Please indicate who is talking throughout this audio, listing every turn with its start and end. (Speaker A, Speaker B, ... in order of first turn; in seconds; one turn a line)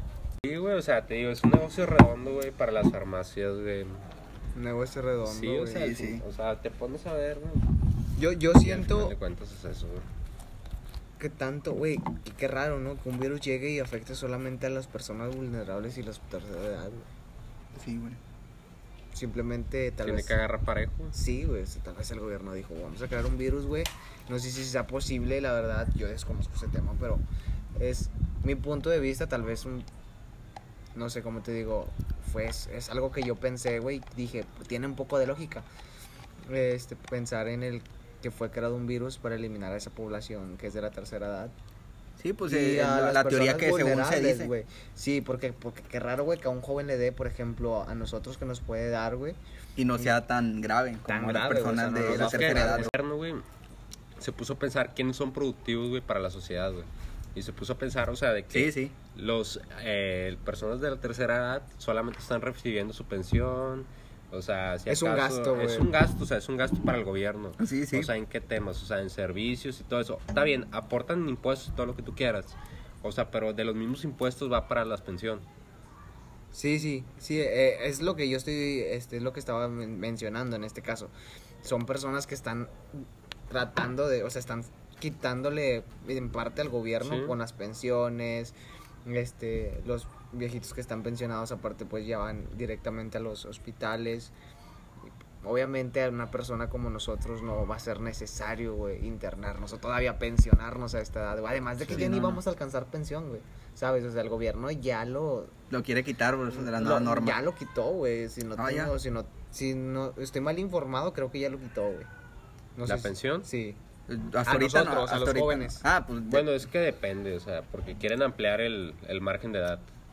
Speaker A: 0.4-4.0
Speaker B: 4.5-6.2
Speaker A: 5.2-7.7
Speaker C: 5.7-6.2
Speaker B: 8.2-9.1
Speaker A: 8.6-10.1
Speaker B: 11.2-17.1
Speaker C: 17.7-18.2
Speaker B: 19.1-20.4
Speaker A: 20.0-21.1
Speaker B: 21.1-27.2
Speaker B: 27.8-29.9
Speaker B: 31.0-35.6
Speaker B: 36.5-41.5
Speaker C: 42.2-44.5
Speaker B: 42.4-49.4
Speaker C: 49.8-52.9
Speaker B: 51.0-52.9
Speaker A: 52.1-53.4
Speaker A: 54.2-75.5
Speaker C: 58.5-59.0
Speaker B: 64.9-65.9
Speaker C: 67.6-68.1
Speaker B: 76.5-81.1
Speaker B: 81.6-94.3
Speaker A: 87.0-87.3
Speaker B: 95.4-105.5
Speaker C: 101.8-102.4
Speaker C: 105.7-107.4
Speaker B: 106.6-112.1
Speaker C: 108.6-108.9
Speaker B: 112.8-113.8
Speaker A: 112.9-113.5
Speaker C: 114.1-116.5
Speaker B: 114.5-115.8
Speaker A: 116.3-119.9